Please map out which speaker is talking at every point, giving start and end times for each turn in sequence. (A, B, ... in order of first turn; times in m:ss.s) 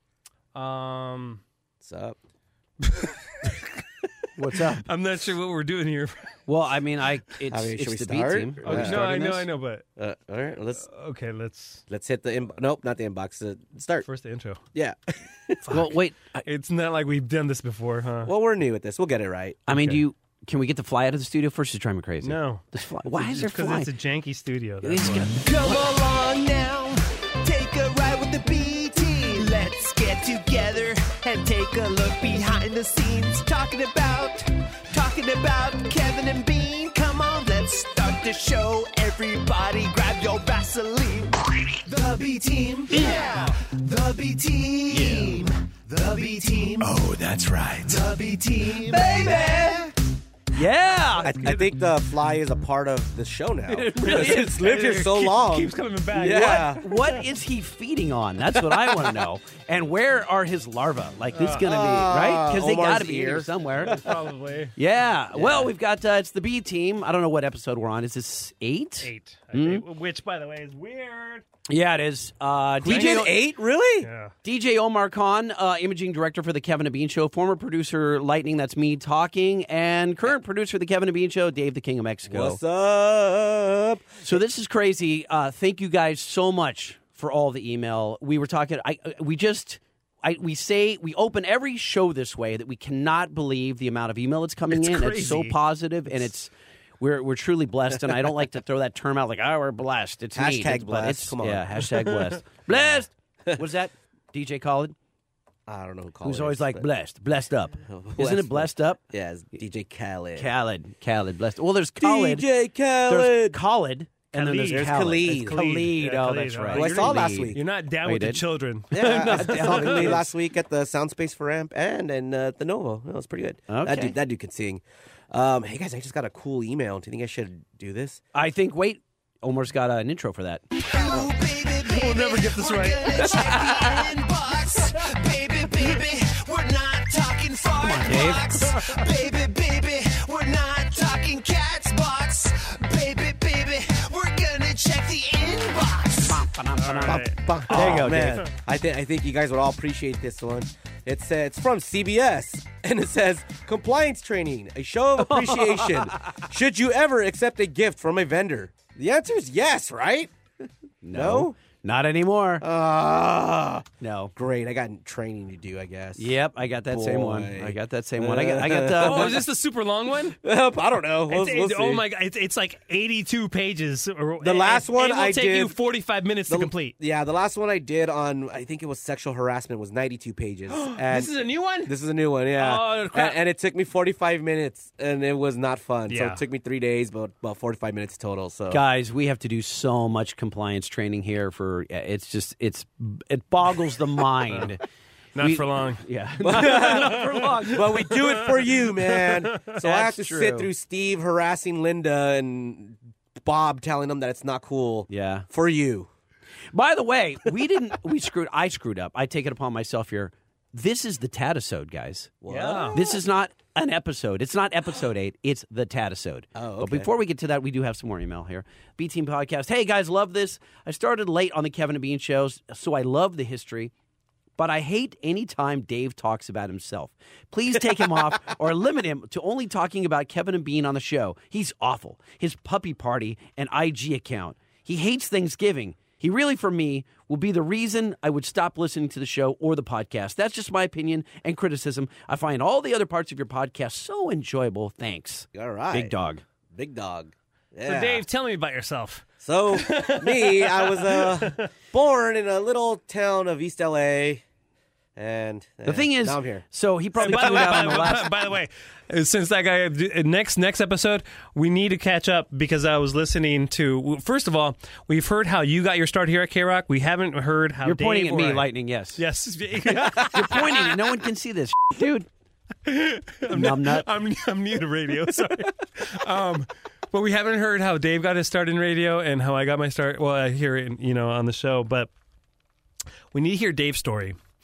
0:00.5-0:01.4 A
0:01.8-0:02.2 B
0:03.0-0:03.5 A
0:04.4-0:04.9 C
0:04.9-0:06.3 A
0:06.5-0:09.4 C
0:07.5-0:09.2 B
0:08.6-0:09.8 A
0:10.0-0:10.9 B
0:10.8-0:11.8 A
0:11.9-0:14.0 B
0:14.0-0:14.6 A
0:14.7-0:15.6 B
0:15.6-0:18.3 A
0:15.7-0:16.4 C
0:18.2-0:19.6 B
0:19.7-0:23.9 C
0:19.7-0:20.0 A
0:22.2-0:25.3 A
0:24.8-0:25.4 C
0:25.4-0:47.0 D
0:47.7-0:49.9 D
0:50.5-0:51.6 C
0:51.2-0:56.8 B
0:53.7-0:57.2 A
0:54.0-0:54.4 C
0:56.4-1:04.0 C
1:01.3-1:01.7 A
1:01.6-1:04.0 B
1:03.8-1:04.8 A
1:04.8-1:09.8 C
1:05.4-1:05.7 B
1:09.0-1:11.4 A
1:11.7-1:13.4 C
1:12.8-1:14.1 B
1:12.8-1:13.2 A
1:14.0-1:14.3 A
1:14.4-1:22.6 C
1:22.3-1:24.2 B
1:24.2-1:44.9 C
1:34.7-1:35.6 A
1:40.3-1:41.8 B
1:42.7-1:43.6 B
1:45.7-1:46.8 B
1:46.2-1:49.0 C
1:47.9-1:50.5 B
1:50.4-1:52.4 C
1:52.0-1:53.6 B
1:53.0-2:00.2 C
1:54.3-1:54.9 A
1:54.7-1:55.6 B
1:55.5-2:00.3 A
1:56.7-1:57.6 B
1:58.9-2:08.2 B
2:03.7-2:04.2 C
2:08.3-2:10.7 C
2:10.8-2:26.4 D
2:11.9-2:13.4 A
2:13.3-2:14.0 C
2:17.8-2:18.5 C
2:26.3-2:28.4 C
2:26.8-2:28.5 A
2:27.0-2:40.3 B
2:35.2-2:36.2 C
2:41.0-2:42.6 C
2:41.1-2:41.6 B
2:42.6-2:49.5 B
2:44.0-2:44.3 C
2:46.2-2:49.4 C
2:48.9-2:50.4 A
2:50.4-2:52.1 B
2:51.3-2:57.0 A
2:54.4-2:55.8 B
2:56.5-3:08.8 B
3:00.7-3:01.9 A
3:02.6-3:03.4 A
3:06.1-3:06.4 A
3:08.7-3:14.8 C
3:15.3-3:19.8 A
3:15.4-3:18.1 C
3:16.4-3:26.1 B
3:19.8-3:20.7 C
3:25.1-3:25.5 C
3:26.7-3:32.4 C
3:32.4-3:33.2 B
3:32.5-3:33.0 A
3:32.9-3:43.9 C
3:36.6-3:37.1 B
3:44.6-4:06.4 C
4:05.5-4:06.1 B
4:06.7-4:08.2 B
4:07.9-4:11.7 A
4:09.4-4:14.4 B
4:15.2-4:16.6 B
4:15.8-4:18.3 C
4:17.2-4:30.9 A
4:17.3-4:18.2 B
4:27.8-4:29.2 C
4:29.8-4:32.3 C
4:32.8-4:42.1 A
4:33.5-4:34.1 C
4:43.3-4:44.4 A